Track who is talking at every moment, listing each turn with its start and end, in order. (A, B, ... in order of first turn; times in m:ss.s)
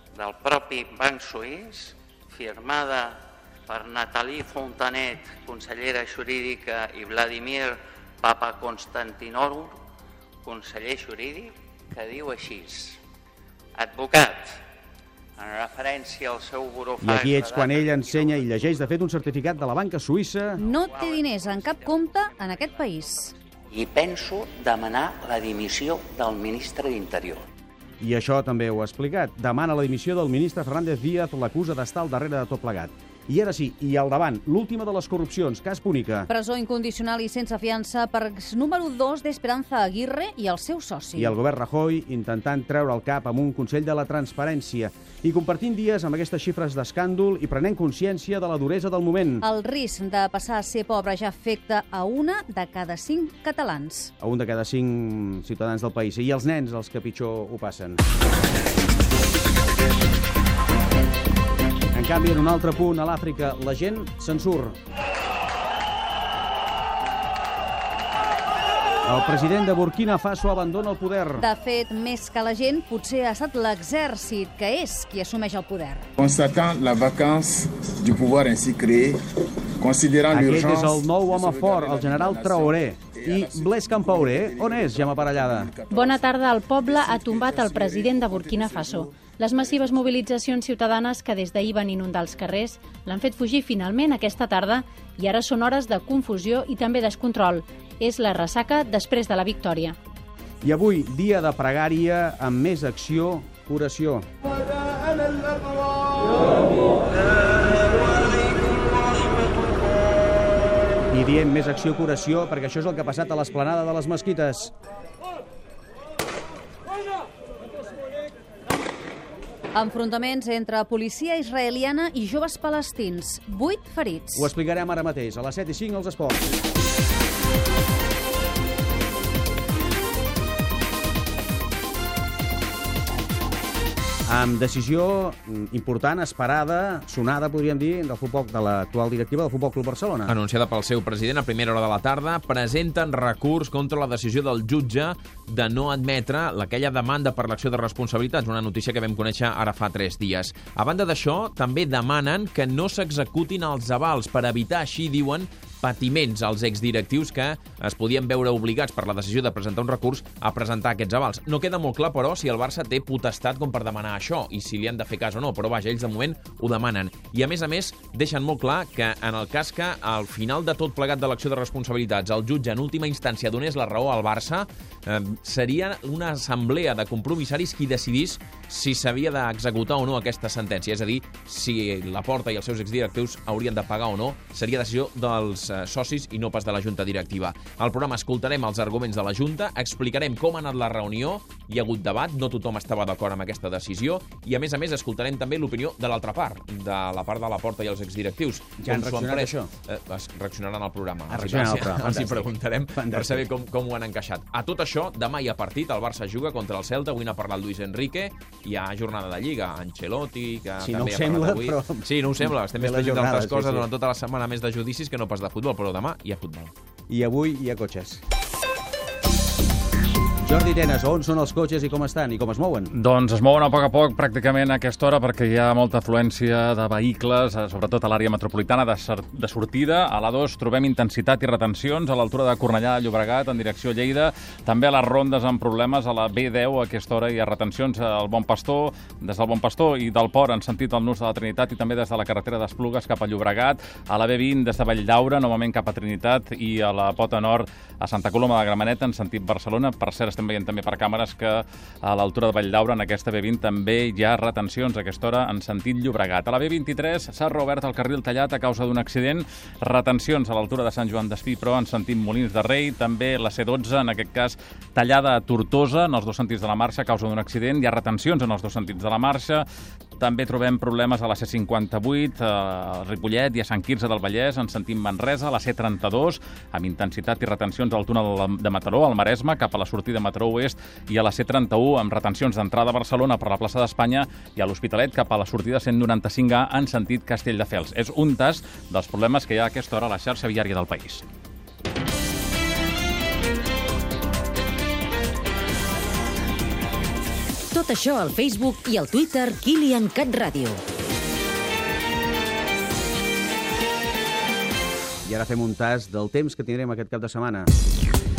0:00.2-0:03.1 A
0:03.7-0:09.7 A
0:10.4-0:12.9 A
0:13.8-0:14.4 A
0:15.4-0:19.1 A
0:17.0-0:20.6 B
0:20.6-0:23.3 C
0:20.8-0:27.4 A
0:28.0-0:36.3 B
0:36.3-0:41.3 C
0:41.2-0:49.4 B
0:49.4-0:54.1 C
0:54.2-0:58.0 B
1:01.9-1:04.8 B
1:09.0-1:11.4 B
1:11.4-1:16.0 C
1:16.2-1:19.2 D
1:19.8-1:30.0 D
1:20.3-1:25.7 B
1:25.9-1:40.0 E
1:40.6-1:44.3 B
1:51.1-1:54.7 B
1:59.7-2:04.5 C
2:04.3-2:06.5 B
2:14.3-2:20.4 B
2:20.4-3:19.0 F
3:18.8-3:19.7 B
3:19.9-3:31.3 F
3:21.3-3:23.5 B
3:30.8-3:33.9 B
3:32.1-3:36.7 F
3:37.1-3:38.2 B
3:40.4-3:42.9 B
3:42.9-4:29.6 G
4:30.2-4:51.2 G
4:57.7-5:00.8 H
5:05.2-5:07.7 B